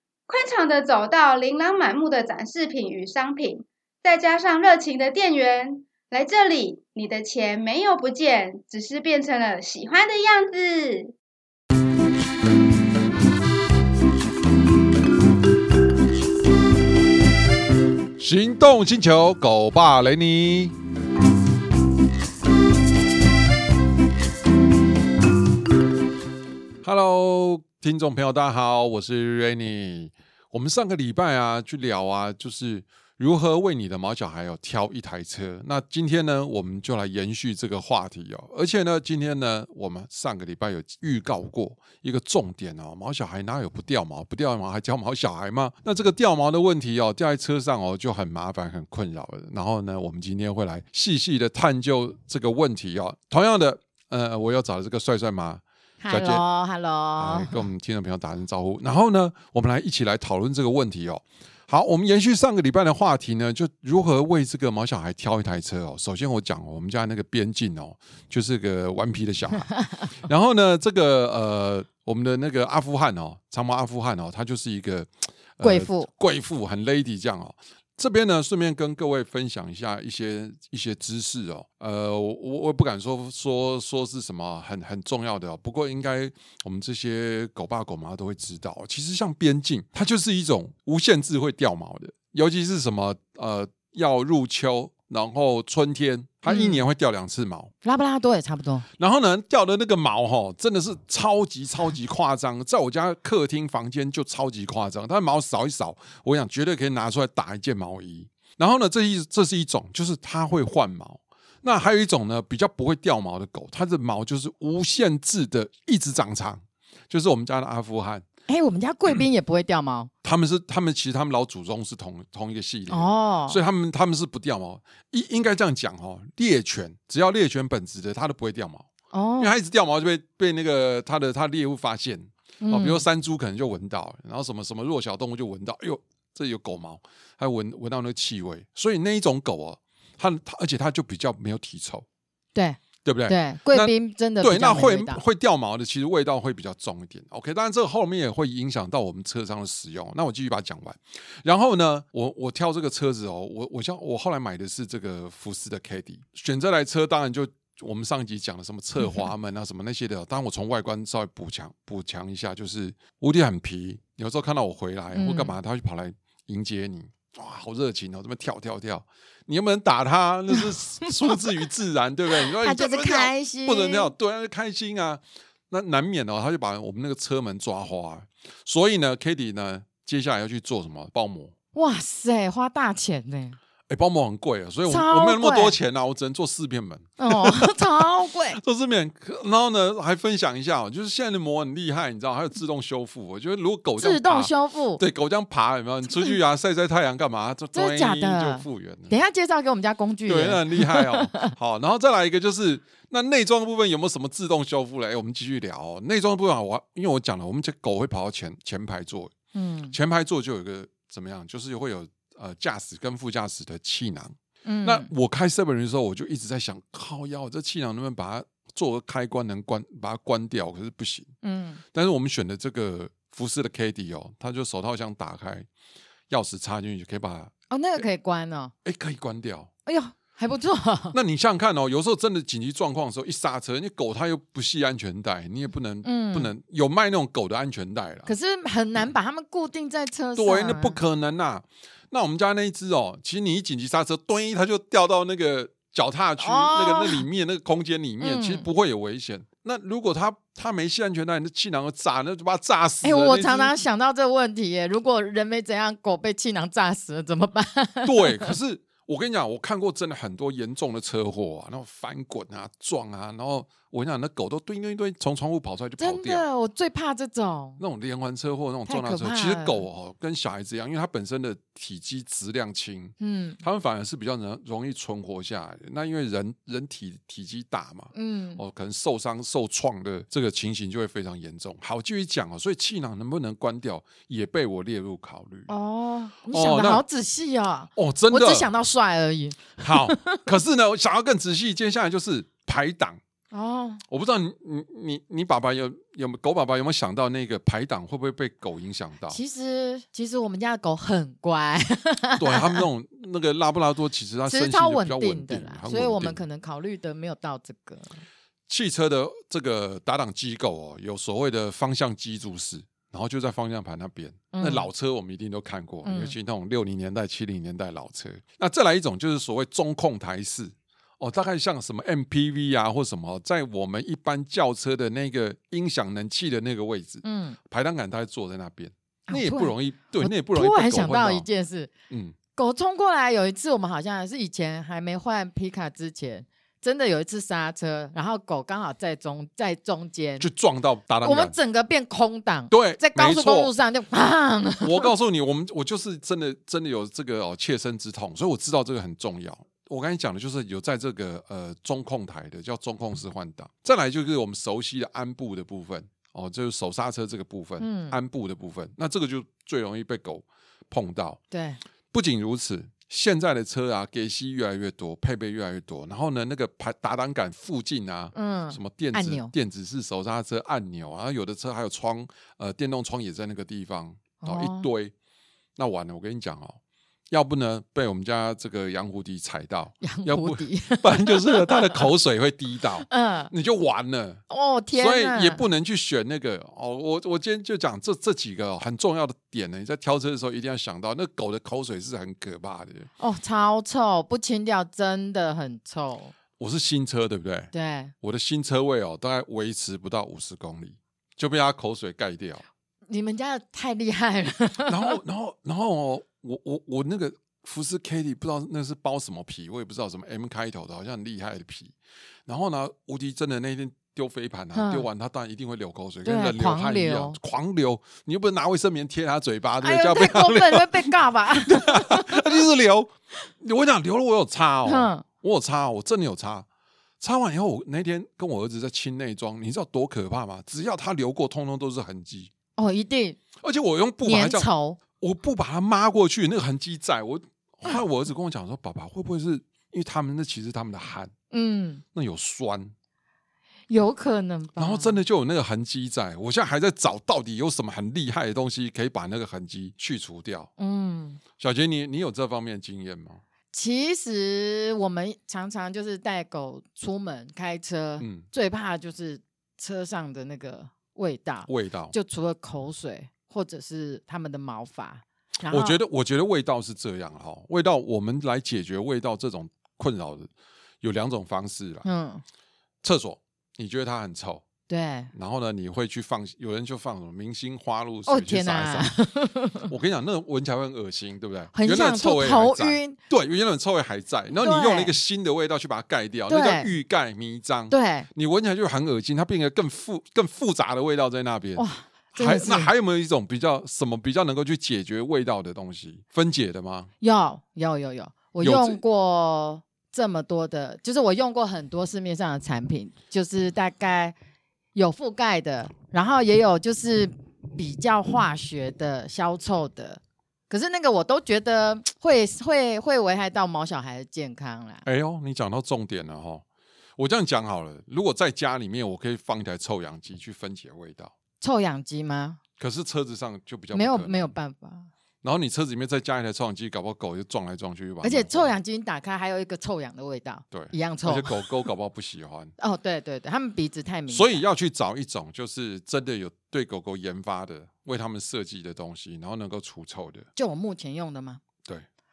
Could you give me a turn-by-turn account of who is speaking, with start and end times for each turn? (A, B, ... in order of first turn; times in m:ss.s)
0:00.3-0:11.2 A
0:18.2-0:20.8 B
0:26.8-0:56.4 B
0:56.0-0:57.6 C
0:57.2-1:37.7 B
1:15.6-1:16.1 C
1:36.5-1:36.8 C
1:37.8-1:38.9 C
1:39.0-1:58.3 B
1:58.5-2:00.1 C
2:00.2-2:08.9 B
2:02.9-2:03.6 C
2:09.1-2:09.6 C
2:09.4-2:22.1 B
2:12.6-2:13.0 C
2:22.6-2:25.2 C
2:23.0-3:01.5 B
2:45.1-2:45.6 C
2:50.5-2:51.4 C
2:52.4-2:54.1 C
3:01.8-3:03.6 C
3:03.9-3:19.2 B
3:04.9-3:05.8 C
3:07.2-3:08.6 C
3:14.0-3:15.0 C
3:16.1-3:16.4 C
3:17.7-3:21.5 C
3:20.3-3:29.3 B
3:29.5-3:30.0 C
3:29.9-3:41.3 B
3:34.6-3:35.1 C
3:41.4-3:41.8 C
3:41.9-3:45.7 B
3:46.3-3:48.1 B
3:47.7-3:48.7 C
3:48.8-3:49.7 B
3:49.9-3:51.2 C
3:51.1-3:58.4 B
3:56.0-3:56.6 C
3:58.3-4:01.0 C
4:00.4-4:13.7 B
4:06.4-4:07.3 C
4:08.2-4:08.7 C
4:13.0-4:18.6 C
4:18.0-4:26.5 B
4:26.0-4:27.8 C
4:27.8-4:45.7 B
4:28.9-4:29.9 C
4:33.2-4:33.6 C
4:38.1-4:38.6 C
4:45.7-4:50.4 C
4:46.5-4:47.0 B
4:48.0-4:48.7 B
4:49.8-4:53.2 B
4:53.5-4:54.0 C
4:54.1-4:59.4 B
4:59.3-5:02.9 C
5:02.4-5:06.4 B
5:04.5-5:08.2 C
5:08.7-5:31.5 B
5:14.5-5:14.9 C
5:16.0-5:16.4 C
5:27.2-5:27.6 C
5:29.3-5:31.9 C
5:32.1-5:32.4 B
5:32.6-5:40.5 C
5:40.4-5:41.6 B
5:41.2-5:45.1 C
5:42.7-5:43.7 B
5:44.8-6:01.4 B
5:57.8-5:58.2 C
6:01.5-6:01.8 C
6:02.1-6:15.1 B
6:08.3-6:09.5 C
6:14.4-6:14.9 C
6:15.8-6:16.8 B
6:17.3-6:24.4 B
6:20.0-6:22.1 C
6:23.0-6:23.5 C
6:24.5-6:25.6 C
6:24.9-6:33.1 B
6:33.2-6:36.4 C
6:36.6-6:42.6 B
6:37.7-6:38.1 C
6:43.1-6:45.2 C
6:44.8-6:52.0 B
6:52.5-7:06.7 B
6:54.8-6:55.1 C
6:56.2-6:57.4 C
6:59.8-7:02.6 C
7:04.8-7:05.2 C
7:07.2-7:12.5 B
7:12.8-7:13.4 C
7:13.6-7:21.3 B
7:14.2-7:15.0 C
7:21.5-7:22.0 C
7:22.1-7:22.9 B
7:23.9-7:25.2 C
7:24.8-7:30.7 B
7:30.8-7:31.4 C
7:31.6-7:33.4 B
7:33.7-7:46.0 C
7:38.2-7:38.5 B
7:41.7-7:42.2 B
7:45.7-7:50.5 B
7:51.0-7:52.1 B
7:52.0-7:52.4 C
7:53.0-7:54.6 B
7:54.9-7:55.3 C
7:55.3-7:59.1 B
7:58.2-7:59.9 C
7:59.9-8:17.1 B
8:01.7-8:03.2 C
8:04.6-8:05.2 C
8:06.5-8:06.9 C
8:07.9-8:08.3 C
8:11.8-8:12.9 C
8:17.2-8:24.4 C
8:18.6-8:19.0 B
8:25.0-8:35.0 C
8:35.0-8:36.6 B
8:37.2-8:41.3 B
8:41.6-8:42.6 C
8:42.8-8:44.5 B
8:43.9-8:45.1 C
8:45.4-8:48.8 B
8:48.2-8:51.7 C
8:50.7-8:52.7 B
8:52.8-8:54.6 C
8:54.3-9:00.5 B
9:00.6-9:01.6 C